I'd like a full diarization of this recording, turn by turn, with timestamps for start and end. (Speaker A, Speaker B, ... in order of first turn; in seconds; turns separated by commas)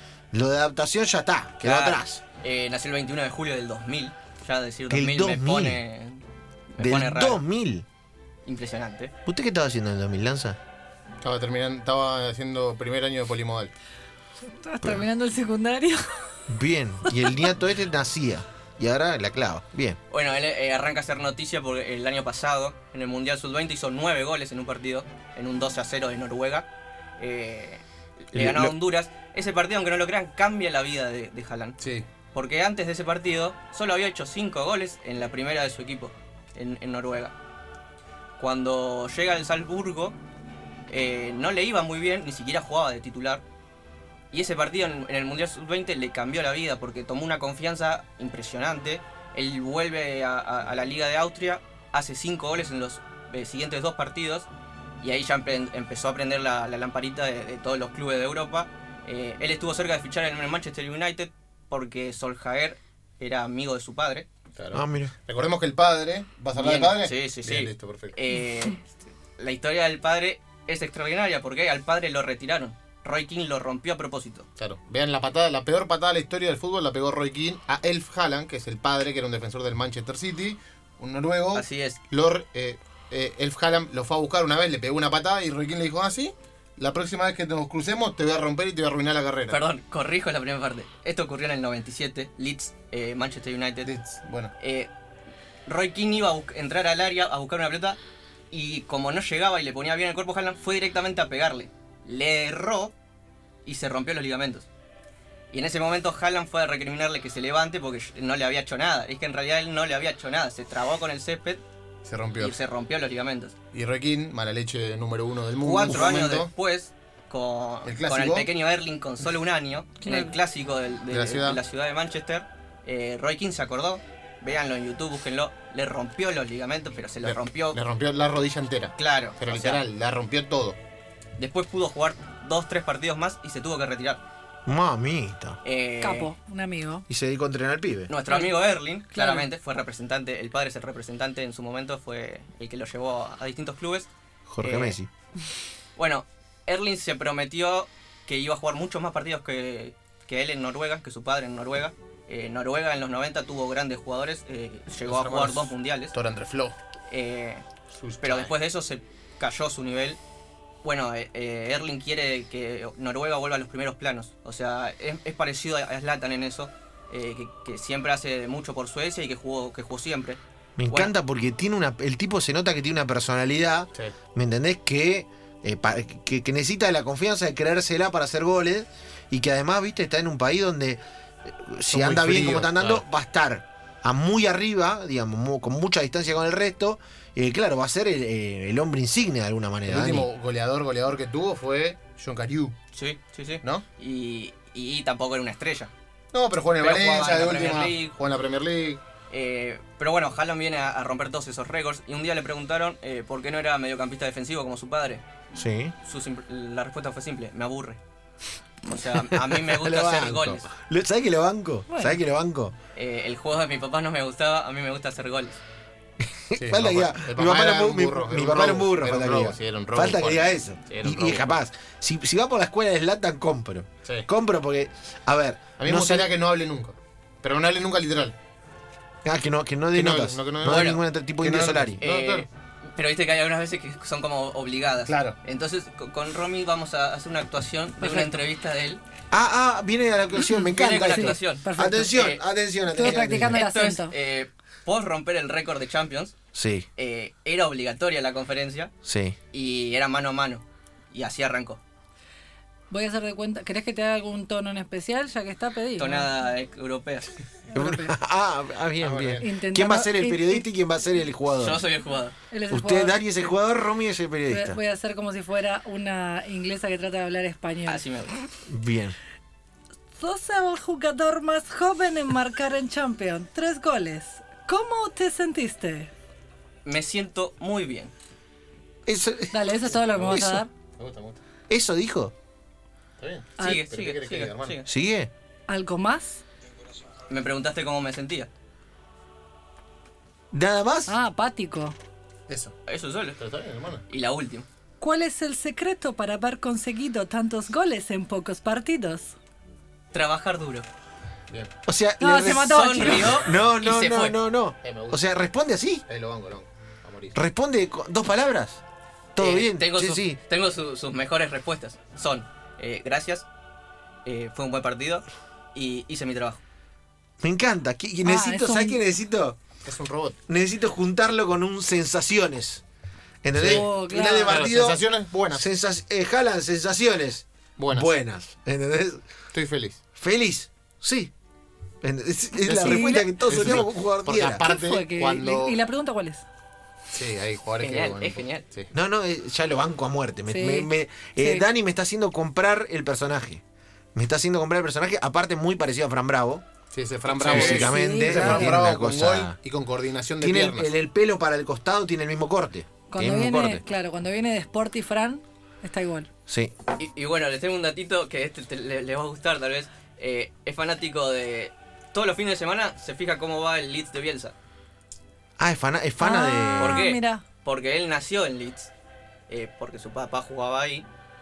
Speaker A: 0.3-2.2, Speaker B: 1.6-7.4, Speaker A: 4.9-5.8, Speaker A: 6.8-7.8, Speaker B: 8.4-9.1, Speaker A: 9.2-10.6, Speaker C: 11.2-13.7, Speaker D: 14.4-16.4, Speaker A: 14.8-15.1, Speaker A: 16.5-20.0, Speaker D: 17.1-17.5, Speaker B: 20.1-26.7, Speaker B: 27.2-31.8, Speaker A: 28.3-28.8, Speaker C: 31.8-32.1, Speaker B: 32.3-37.3, Speaker B: 38.4-40.1, Speaker B: 40.9-43.4, Speaker B: 44.3-54.5, Speaker B: 55.0-64.3, Speaker C: 64.6-68.2, Speaker A: 64.7-65.1, Speaker B: 66.5-68.8, Speaker B: 69.4-74.5, Speaker C: 74.6-89.6, Speaker B: 81.5-82.0, Speaker B: 89.5-93.9, Speaker C: 93.8-94.5, Speaker B: 94.6-94.9, Speaker B: 95.7-98.0, Speaker B: 98.5-102.9, Speaker B: 103.6-104.7, Speaker B: 105.5-111.6, Speaker C: 112.0-112.6, Speaker B: 112.4-113.5, Speaker C: 113.7-116.5, Speaker B: 115.6-127.8, Speaker C: 117.8-118.5, Speaker D: 120.0-120.3, Speaker C: 121.1-121.6, Speaker C: 127.2-130.8, Speaker B: 129.0-129.8, Speaker B: 131.4-134.2, Speaker A: 134.7-135.6, Speaker B: 135.6-136.3, Speaker D: 136.0-137.1, Speaker A: 137.1-138.1, Speaker B: 138.1-145.0, Speaker D: 138.3-138.5, Speaker D: 139.1-139.5, Speaker A: 144.5-145.1, Speaker B: 145.9-156.1, Speaker C: 155.0-156.8, Speaker B: 157.1-157.6, Speaker C: 157.9-158.5, Speaker B: 158.2-160.2, Speaker B: 160.8-171.1, Speaker A: 170.8-190.3, Speaker C: 181.9-183.0, Speaker C: 189.8-192.7, Speaker B: 192.9-195.9, Speaker C: 196.3-199.0, Speaker B: 196.8-198.2, Speaker B: 199.3-205.2, Speaker A: 205.5-205.9, Speaker B: 206.0-208.0, Speaker B: 208.8-210.7, Speaker A: 209.3-212.7, Speaker D: 211.9-212.2, Speaker B: 212.9-215.6, Speaker A: 216.2-226.3, Speaker C: 216.6-221.5, Speaker C: 225.8-228.3, Speaker A: 229.2-232.0, Speaker C: 229.9-232.4, Speaker B: 230.7-231.0, Speaker B: 232.0-239.0, Speaker C: 235.1-235.3, Speaker D: 238.0-238.4, Speaker A: 239.3-243.6, Speaker B: 240.5-242.4, Speaker D: 241.1-242.2, Speaker D: 242.9-244.2, Speaker B: 243.5-246.3, Speaker A: 246.5-246.9, Speaker B: 246.9-248.9, Speaker A: 249.1-249.3, Speaker B: 249.5-251.8, Speaker D: 252.9-256.3, Speaker B: 256.0-257.4, Speaker D: 257.7-258.1, Speaker A: 257.7-261.8, Speaker C: 259.0-259.5, Speaker D: 259.4-260.7, Speaker B: 261.6-262.4, Speaker D: 262.5-263.5, Speaker A: 262.7-264.8, Speaker D: 264.5-268.0, Speaker B: 267.8-268.5, Speaker A: 268.7-269.2, Speaker D: 270.2-276.1, Speaker B: 276.8-278.1, Speaker A: 279.1-280.6, Speaker D: 279.5-280.7, Speaker C: 280.1-280.4, Speaker C: 280.9-281.4, Speaker A: 281.7-282.3, Speaker C: 283.2-284.8, Speaker D: 283.6-283.8, Speaker B: 283.6-284.9, Speaker A: 284.9-285.3, Speaker D: 285.7-286.4, Speaker B: 287.3-288.5, Speaker A: 290.5-291.2, Speaker D: 291.1-291.9, Speaker C: 292.5-292.7, Speaker B: 292.9-293.4, Speaker C: 293.4-294.0, Speaker B: 294.1-294.7, Speaker D: 295.0-299.3, Speaker B: 300.1-300.9, Speaker A: 301.9-306.1, Speaker D: 302.2-303.4, Speaker B: 302.6-304.4, Speaker C: 304.8-305.3, Speaker C: 306.1-307.4, Speaker A: 307.3-308.8, Speaker A: 309.3-310.4, Speaker B: 309.4-313.4, Speaker B: 314.2-316.6, Speaker A: 317.4-319.6, Speaker D: 318.2-319.0, Speaker C: 319.8-320.4, Speaker A: 320.5-322.8, Speaker A: 323.4-325.0, Speaker C: 323.6-325.7, Speaker D: 323.6-324.6, Speaker A: 325.5-329.2, Speaker C: 327.8-328.1, Speaker C: 329.5-330.0, Speaker A: 330.2-331.3, Speaker A: 332.0-334.7, Speaker C: 332.6-335.8, Speaker D: 332.7-333.5, Speaker D: 334.6-336.4, Speaker C: 337.1-338.9, Speaker B: 337.8-338.6, Speaker A: 338.9-343.6, Speaker D: 340.5-341.7, Speaker A: 344.1-346.6, Speaker C: 346.9-350.9, Speaker B: 347.3-347.8, Speaker A: 347.4-349.6, Speaker D: 347.7-348.8, Speaker A: 350.4-353.9, Speaker D: 353.1-356.3, Speaker A: 356.5-356.7, Speaker B: 357.0-364.6, Speaker A: 365.6-367.0, Speaker D: 366.2-367.4, Speaker B: 366.8-368.9, Speaker B: 369.5-371.1